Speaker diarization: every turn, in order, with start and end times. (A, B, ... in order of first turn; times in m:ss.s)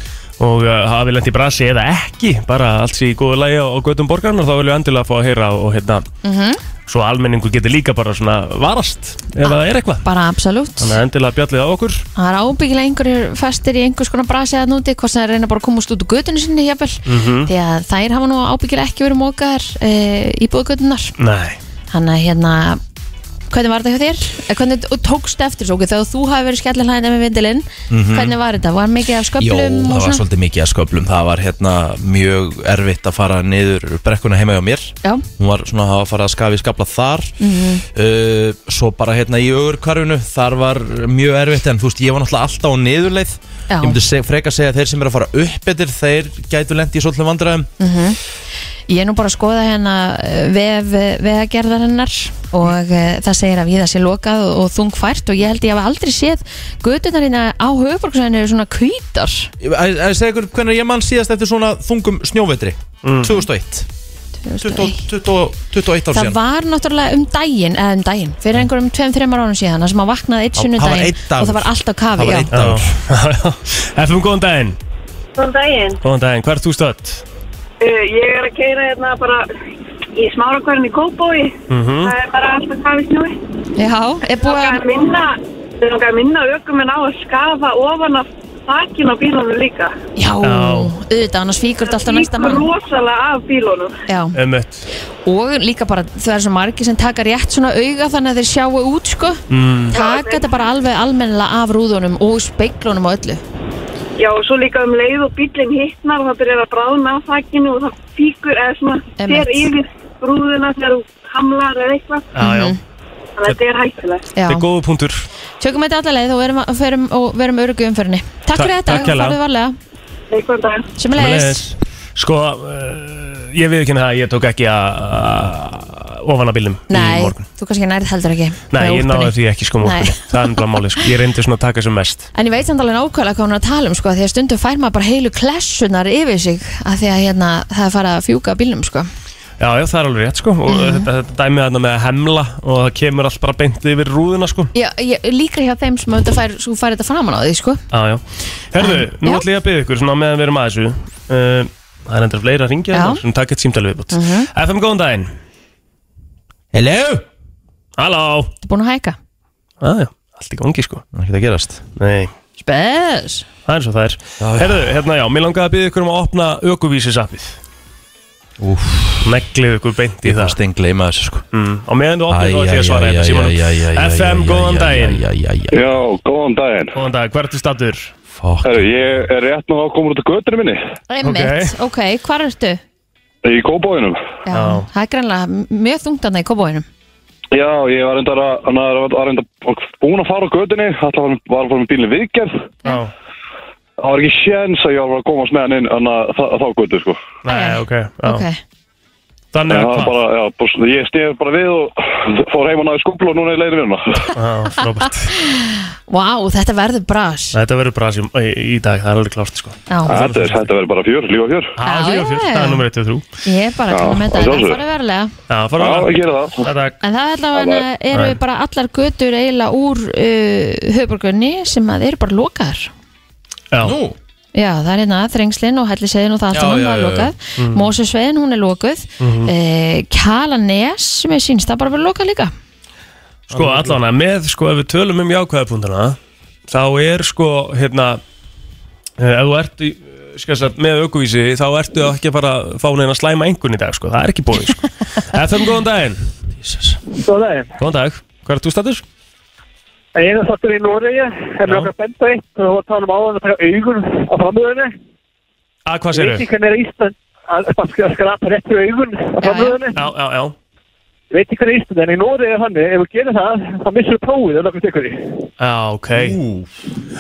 0:00.4-0:06.1 A
0:06.2-0:06.6 B
0:06.9-0:10.0 A
0:09.4-0:11.0 B
0:10.8-0:12.1 A
0:12.2-0:21.1 B
0:17.1-0:17.5 A
0:21.2-0:21.6 A
0:21.9-0:22.8 B
0:23.5-0:30.2 B
0:27.9-0:28.4 C
0:29.4-0:37.3 C
0:37.4-0:37.8 B
0:37.9-0:47.7 C
0:43.7-0:44.0 B
0:47.8-0:48.2 B
0:48.9-0:59.5 B
0:59.6-1:03.9 C
1:03.0-1:03.4 A
1:04.4-1:05.0 B
1:04.6-1:06.4 C
1:06.1-1:12.5 B
1:10.6-1:12.9 C
1:12.5-1:14.8 A
1:15.4-1:16.0 D
1:16.0-1:17.2 A
1:17.8-1:19.5 D
1:20.2-1:23.4 D
1:21.7-1:22.2 A
1:23.8-1:24.8 B
1:24.4-1:30.0 D
1:30.2-1:32.7 B
1:30.4-1:30.9 A
1:31.8-1:34.0 D
1:34.1-1:34.4 B
1:34.4-1:34.9 A
1:35.2-1:43.4 B
1:39.5-1:40.0 A
1:39.9-1:40.6 D
1:44.2-1:52.3 D
1:49.2-1:49.7 B
1:52.4-1:52.8 A
1:52.4-1:52.8 B
1:53.4-1:54.3 D
1:54.4-1:54.7 B
1:54.4-1:55.3 A
1:55.6-1:59.8 B
1:58.6-1:59.4 A
2:00.3-2:00.9 D
2:01.0-2:01.6 B
2:01.1-2:07.4 A
2:06.9-2:10.6 B
2:08.7-2:12.3 A
2:12.3-2:19.1 B
2:19.6-2:24.7 A
2:20.7-2:21.1 B
2:24.7-2:27.8 B
2:27.9-2:35.3 A
2:28.8-2:29.4 B
2:32.9-2:33.2 B
2:34.1-2:34.5 B
2:36.7-2:37.2 C
2:38.0-2:38.5 A
2:38.6-2:39.2 B
2:39.8-2:41.0 A
2:41.1-2:41.8 C
2:42.0-2:42.3 A
2:42.6-2:43.5 B
2:43.7-2:47.6 A
2:44.4-2:44.9 C
2:48.6-2:49.3 C
2:49.2-2:50.6 A
2:50.2-2:51.4 C
2:51.5-2:55.2 A
2:52.3-2:55.8 C
2:55.7-2:56.9 E
2:56.9-2:58.1 A
2:58.3-2:58.9 C
2:58.6-3:00.8 E
3:01.1-3:02.8 B
3:01.2-3:01.8 A
3:03.4-3:04.2 E
3:04.5-3:06.8 B
3:04.5-3:04.9 A
3:07.5-3:12.7 E
3:12.8-3:13.1 A
3:14.0-3:17.2 E
3:17.4-3:18.4 A
3:17.5-3:18.6 B
3:19.5-3:20.2 A
3:19.7-3:24.3 E
3:24.4-3:25.3 A
3:25.3-3:27.6 B
3:27.5-3:30.7 A
3:30.1-3:31.7 E
3:31.8-3:33.2 A
3:31.8-3:32.8 B
3:33.4-3:35.3 B
3:33.9-3:34.8 E
3:35.5-3:37.0 A
3:35.8-3:36.7 E
3:37.0-3:42.9 B
3:37.5-3:37.8 E
3:38.1-3:38.4 A
3:43.7-3:44.0 A
3:43.8-3:44.2 C
3:44.6-3:52.5 B
3:46.5-3:47.3 C
3:47.6-3:47.9 A
3:49.2-3:49.5 A
3:53.5-3:54.0 C
3:53.5-3:58.2 A
3:59.2-4:06.2 A
4:06.6-4:07.0 C
4:07.2-4:07.7 F
4:07.8-4:09.0 A
4:10.2-4:14.9 F
4:11.6-4:11.9 A
4:15.9-4:16.5 A
4:16.1-4:20.0 F
4:19.4-4:19.8 B
4:20.0-4:20.6 A
4:21.3-4:25.3 F
4:25.6-4:26.4 A
4:26.2-4:26.7 C